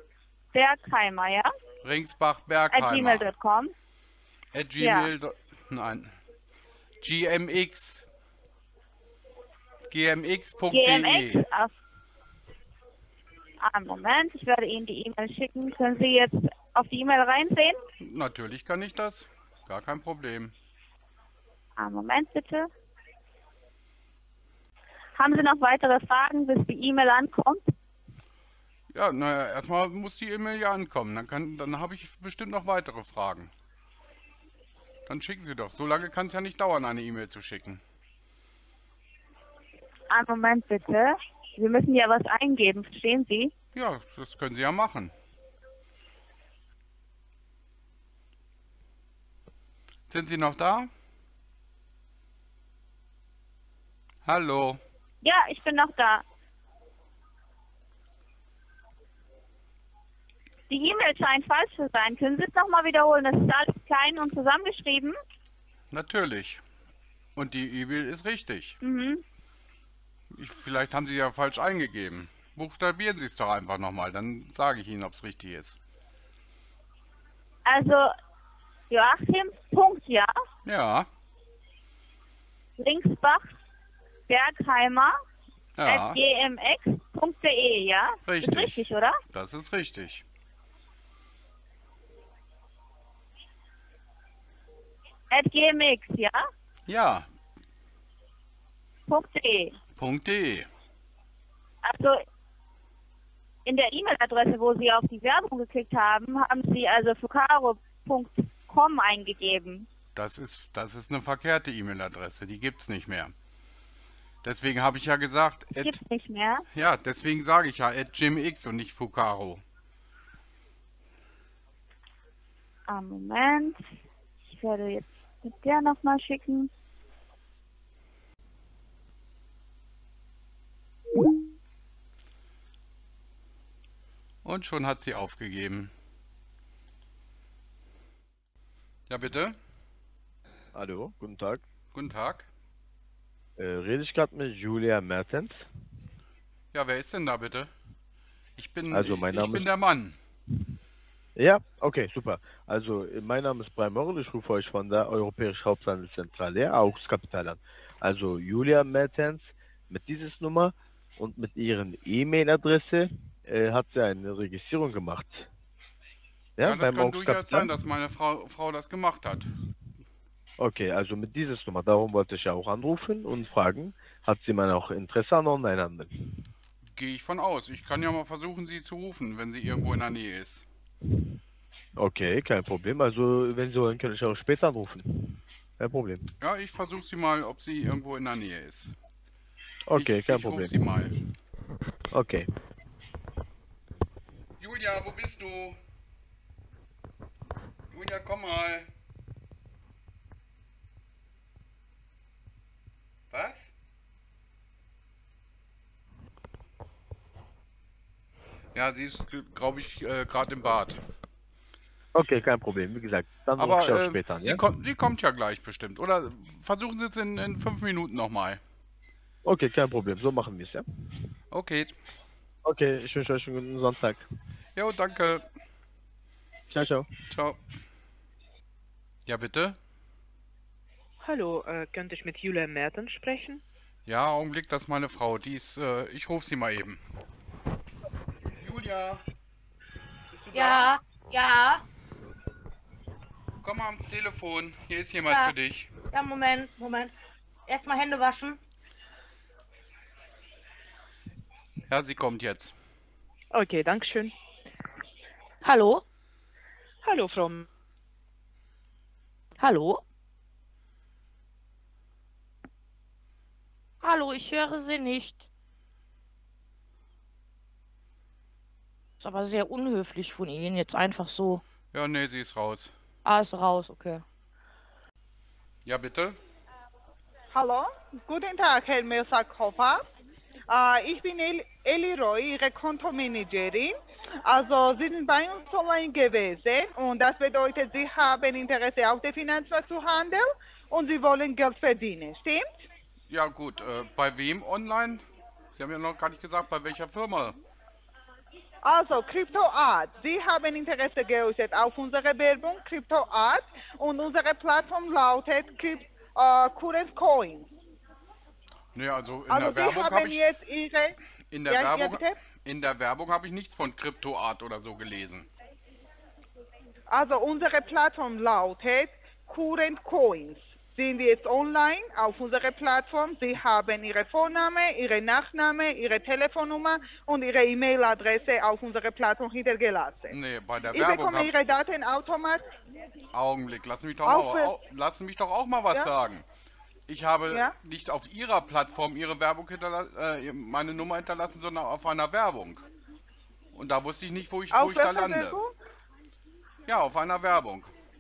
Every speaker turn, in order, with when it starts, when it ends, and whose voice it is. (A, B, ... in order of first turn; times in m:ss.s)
0:00.5-0:01.5 A
0:01.8-0:03.3 B
0:02.7-0:03.7 A
0:04.5-0:06.1 B
0:04.8-0:05.1 A
0:07.0-0:08.0 B
0:09.9-0:11.4 B
0:10.7-0:11.7 A
0:13.6-0:17.8 A
0:18.0-0:20.5 B
0:21.8-0:22.7 A
0:25.2-0:27.7 A
0:28.9-0:33.5 B
0:35.1-0:37.8 B
0:40.1-0:43.5 A
0:43.7-0:45.1 B
0:50.1-0:50.9 B
0:54.2-0:54.8 B
0:55.2-0:56.2 A
1:00.7-1:05.2 A
1:05.9-1:06.6 B
1:07.4-1:08.8 B
1:08.8-1:09.2 A
1:10.3-1:15.8 B
1:17.6-1:18.1 A
1:18.9-1:20.3 A
1:20.6-1:21.1 B
1:22.8-1:23.5 A
1:24.3-1:25.2 A
1:25.8-1:26.2 B
1:25.8-1:29.2 A
1:28.2-1:30.2 B
1:35.3-1:36.4 A
1:36.9-1:37.3 B
1:39.1-1:39.8 A
1:40.0-1:40.7 B
1:41.8-1:42.2 A
1:43.6-1:49.9 A
1:50.1-1:53.3 B
1:54.4-1:56.0 B
1:55.8-1:56.6 A
1:56.7-1:59.6 B
2:02.9-2:03.8 A
2:04.5-2:06.7 A
2:14.4-2:15.9 B
2:19.1-2:19.6 B
2:20.7-2:21.6 C
2:21.9-2:22.5 B
2:23.6-2:25.6 C
2:26.7-2:27.7 B
2:28.6-2:30.2 B
2:28.9-2:29.7 C
2:31.4-2:45.5 C
2:46.6-2:47.7 C
2:46.6-2:49.5 B
2:50.6-2:56.1 C
2:56.9-3:00.6 B
3:02.0-3:06.2 C
3:06.4-3:08.9 B
3:09.9-3:10.9 C
3:09.9-3:11.2 B
3:12.1-3:12.5 C
3:14.6-3:15.8 B
3:17.9-3:18.9 B
3:23.3-3:23.7 B
3:28.7-3:31.0 B
3:32.1-3:34.6 C
3:33.6-3:38.6 B
3:39.4-3:40.8 C
3:41.5-3:41.9 B
3:42.6-3:44.2 C
3:44.8-3:45.4 B
3:46.7-3:47.1 C
3:47.3-3:47.6 B
3:49.2-3:49.8 B
3:51.2-3:53.6 D
3:54.1-3:57.0 B
3:58.6-3:59.2 B
4:00.3-4:00.8 B
4:00.5-4:01.8 E
4:03.6-4:05.9 B
4:05.3-4:05.5 E
4:06.1-4:07.1 E
4:07.7-4:08.6 E
4:11.9-4:12.7 B
4:13.5-4:14.3 D
4:15.6-4:16.0 E
4:17.0-4:17.7 D
4:19.6-4:20.0 E
4:24.0-4:25.4 E
4:29.2-4:31.6 E
4:31.9-4:32.9 B
4:33.2-4:34.2 E
4:35.8-4:36.4 B
4:37.5-4:40.0 F
4:40.7-4:52.7 F
4:53.3-4:55.2 B
4:55.8-4:57.6 B
4:58.8-5:07.7 F
5:08.9-5:10.4 B
5:09.5-5:11.2 F
5:11.5-5:15.5 B
5:11.7-5:12.3 F
5:17.1-5:30.4 F
5:30.3-5:31.5 B
5:30.9-5:32.7 F
5:33.3-5:36.4 B
5:34.2-5:34.7 F
5:37.1-5:42.8 B
5:43.7-5:45.6 B
5:44.7-5:45.7 F
5:46.8-5:47.9 B